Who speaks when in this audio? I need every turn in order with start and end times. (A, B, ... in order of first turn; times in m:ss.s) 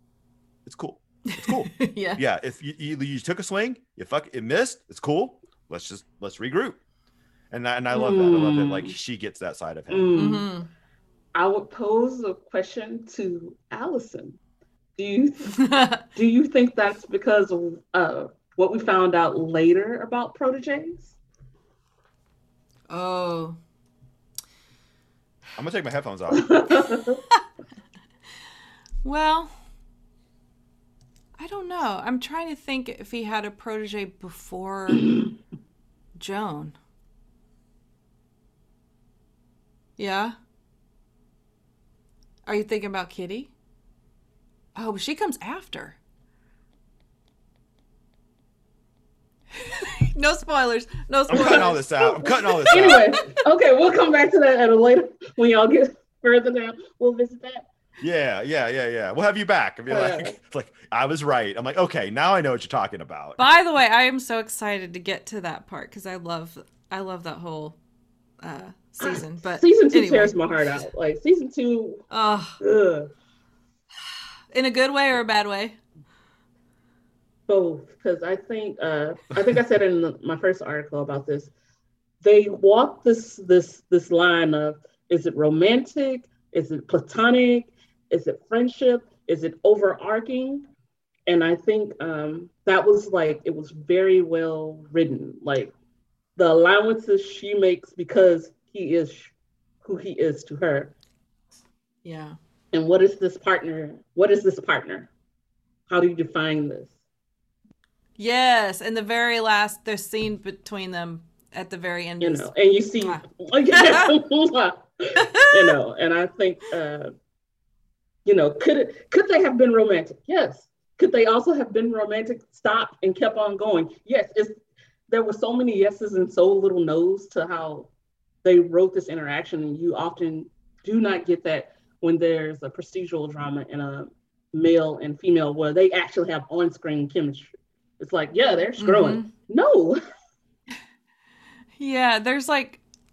0:00.7-0:06.8 A
0:01.3-0:02.2 B
0:07.5-0:10.1 A
0:07.9-0:09.0 C
0:09.9-0:10.5 C
0:10.2-0:10.7 B
0:11.4-0:14.4 C
0:15.0-0:15.6 C
0:15.6-0:16.0 B
0:16.1-0:21.2 C
0:22.9-0:23.6 B
0:25.6-0:26.5 A
0:26.3-0:27.2 C
0:29.0-0:29.6 B
0:31.4-0:35.2 B
0:36.2-0:36.8 B
0:40.0-0:40.4 B
0:42.5-0:43.5 B
0:44.8-0:46.0 B
0:49.6-0:53.2 B
0:51.3-0:53.1 A
0:51.3-0:57.7 C
0:58.0-1:03.4 A
0:59.9-1:00.4 C
1:03.4-1:07.8 B
1:08.4-1:10.4 B
1:09.0-1:12.1 C
1:12.1-1:12.6 B
1:12.6-1:13.1 C
1:14.5-1:15.8 B
1:17.5-1:21.5 C
1:22.2-1:30.7 C
1:31.3-1:35.7 C
1:36.4-1:40.9 C
1:42.0-1:42.4 B
1:42.7-1:45.1 C
1:45.9-1:46.9 C
1:48.2-1:52.5 B
1:52.2-1:57.1 C
1:53.0-1:54.1 B
1:55.2-1:55.8 B
1:58.2-2:07.9 C
2:08.4-2:20.0 C
2:18.8-2:19.3 B
2:21.8-2:22.8 B